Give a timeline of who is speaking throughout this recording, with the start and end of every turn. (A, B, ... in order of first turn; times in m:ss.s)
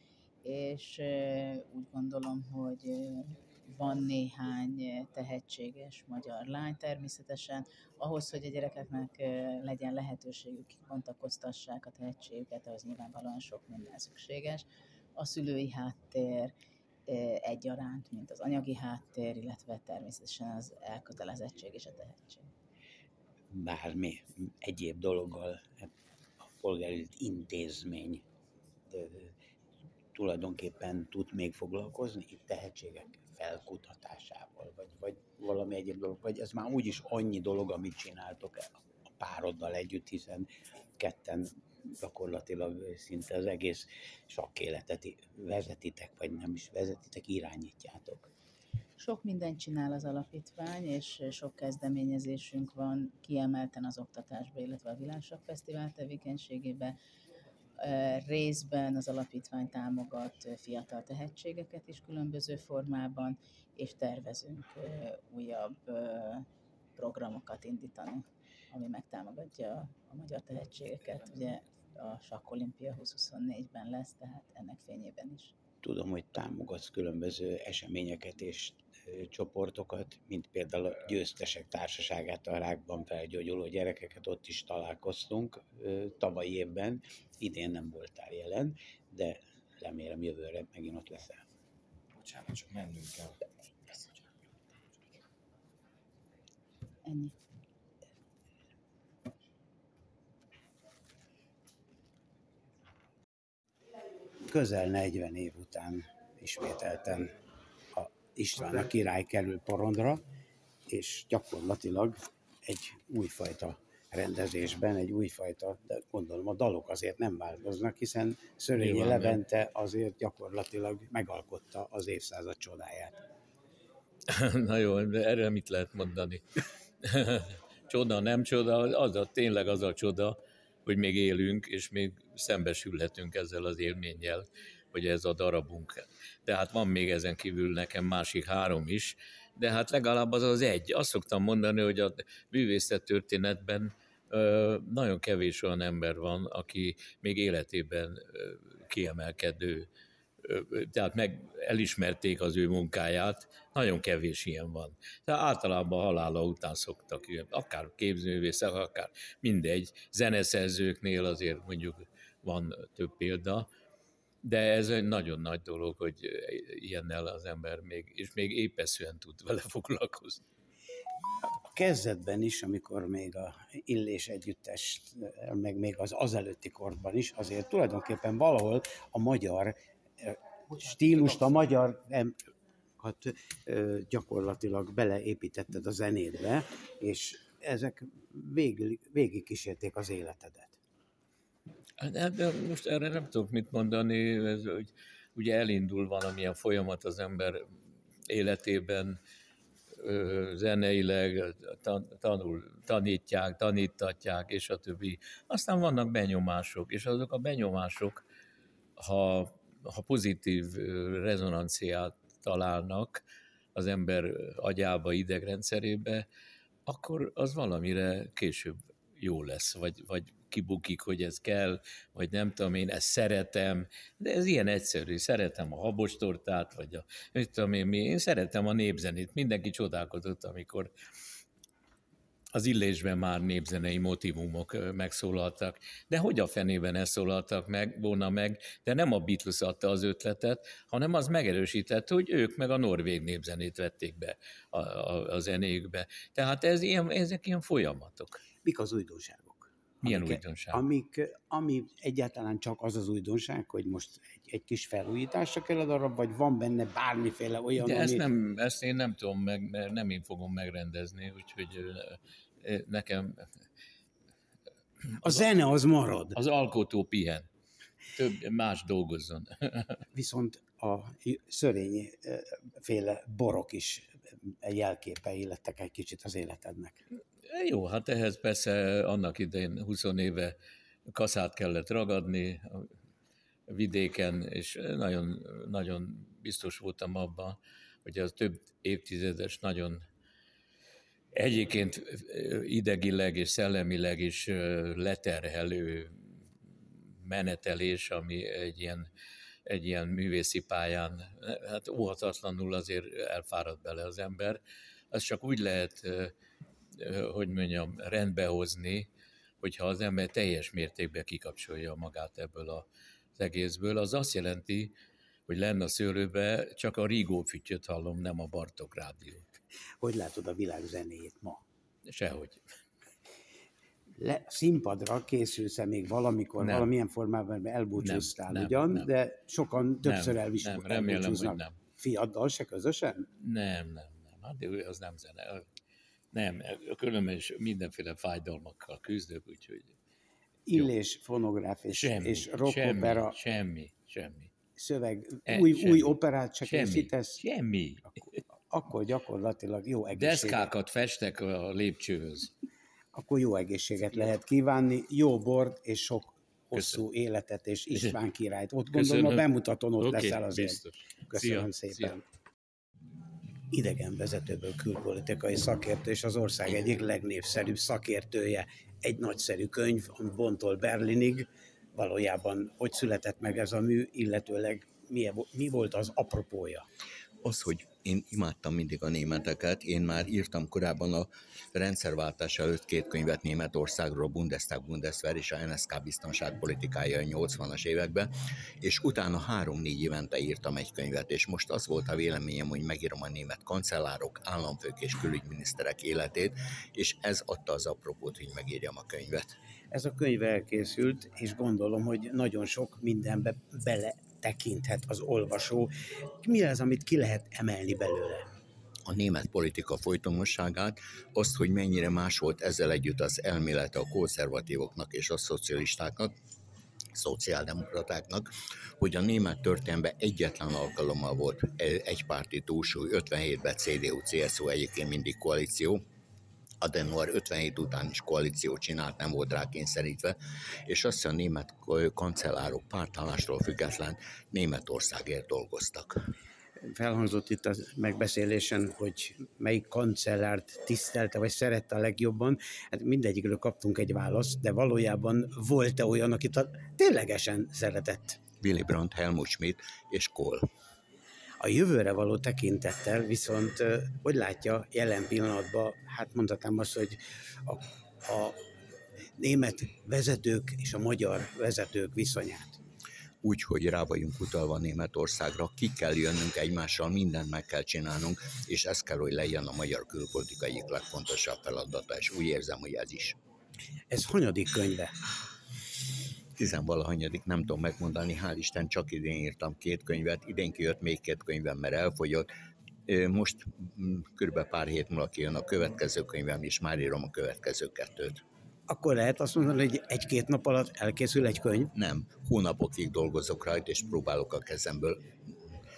0:00.4-0:14.6 A
0:15.2-0:16.5 A
0:17.1-0:22.5 A
0:23.5-0:25.9 B
0:26.4-0:28.2 B
0:28.9-0:29.3 B
0:30.1-0:48.3 B
0:49.0-0:57.0 A
0:57.8-1:06.5 A
1:07.0-1:15.5 A
1:15.8-1:31.5 B
1:32.2-1:34.4 C
1:37.0-1:37.4 A
1:44.5-1:47.4 B
1:47.9-1:50.2 B
1:50.9-2:03.2 B
1:58.8-1:59.4 D
2:04.3-2:06.4 D
2:07.0-2:29.9 D
2:30.4-2:43.7 D
2:44.4-2:50.4 D
2:51.4-3:02.4 B
3:03.0-3:10.8 B
3:12.0-3:17.7 D
3:18.3-3:19.2 D
3:20.0-3:28.2 D
3:29.0-3:33.2 D
3:33.8-3:36.3 D
3:36.9-3:50.9 D
3:52.5-4:08.4 D
4:08.6-4:18.2 B
4:10.0-4:10.8 D
4:17.8-4:23.5 D
4:25.2-4:26.4 B
4:26.4-4:27.5 D
4:28.1-4:30.0 D
4:30.1-4:37.0 B
4:37.5-4:40.6 D
4:41.1-4:42.9 D
4:43.7-4:50.0 D
4:51.3-4:56.4 D
4:57.2-4:59.1 D
4:59.7-5:04.6 D
5:05.1-5:06.3 D
5:07.0-5:09.1 D
5:09.6-5:14.9 D
5:15.5-5:19.6 D
5:20.0-5:21.6 B
5:22.1-5:22.6 D
5:24.2-5:33.3 B
5:26.6-5:26.9 D
5:28.0-5:29.1 D
5:30.0-5:31.8 D
5:33.4-5:35.7 D
5:36.3-5:40.0 D
5:40.7-5:43.4 B
5:41.9-5:44.5 D
5:44.8-5:47.4 B
5:45.5-5:46.1 D
5:46.7-5:48.2 D
5:48.7-5:50.7 B
5:50.2-5:52.5 D
5:53.1-6:02.2 B
5:56.7-5:57.0 D
5:58.9-5:59.4 D
6:00.0-6:02.1 D
6:03.7-6:16.9 B
6:17.4-6:28.3 E
6:28.8-6:39.6 E
6:39.9-6:45.9 B
6:46.4-6:48.5 B
6:49.1-6:56.3 E
6:57.2-7:06.0 E
7:06.8-7:10.4 E
7:10.9-7:16.1 E
7:16.8-7:28.4 B
7:28.6-7:30.7 E
7:31.6-7:38.6 B
7:39.4-7:42.8 B
7:43.4-7:53.4 E
7:54.1-7:55.1 B
7:56.6-8:02.5 E
8:03.1-8:08.4 E
8:08.9-8:11.9 B
8:11.9-8:15.7 E